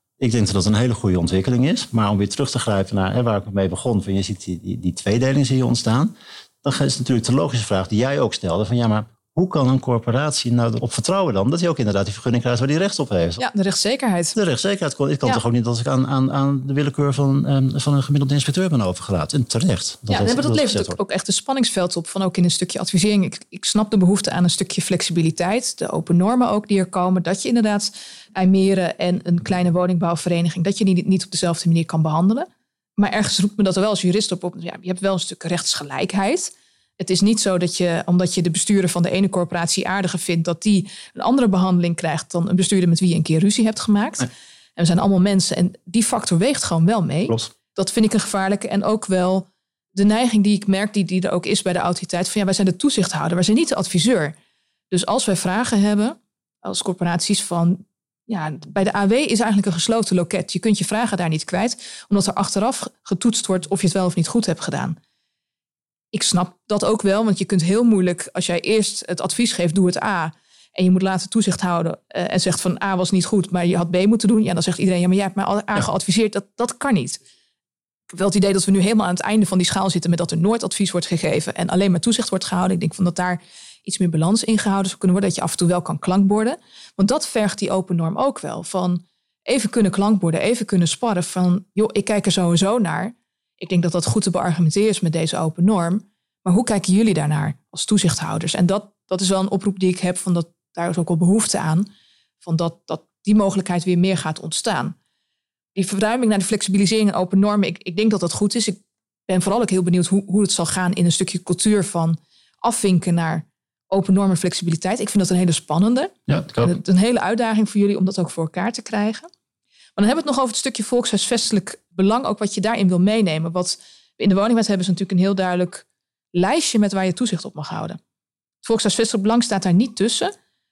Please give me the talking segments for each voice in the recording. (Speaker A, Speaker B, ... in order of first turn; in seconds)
Speaker A: 0.2-13.4, 14.3-21.0, 116.3-116.7
Speaker B: 13.4-14.3, 20.1-54.3, 54.9-65.0, 66.1-77.2, 78.1-101.9, 102.4-104.9, 105.7-119.3, 120.0-128.0, 128.6-130.3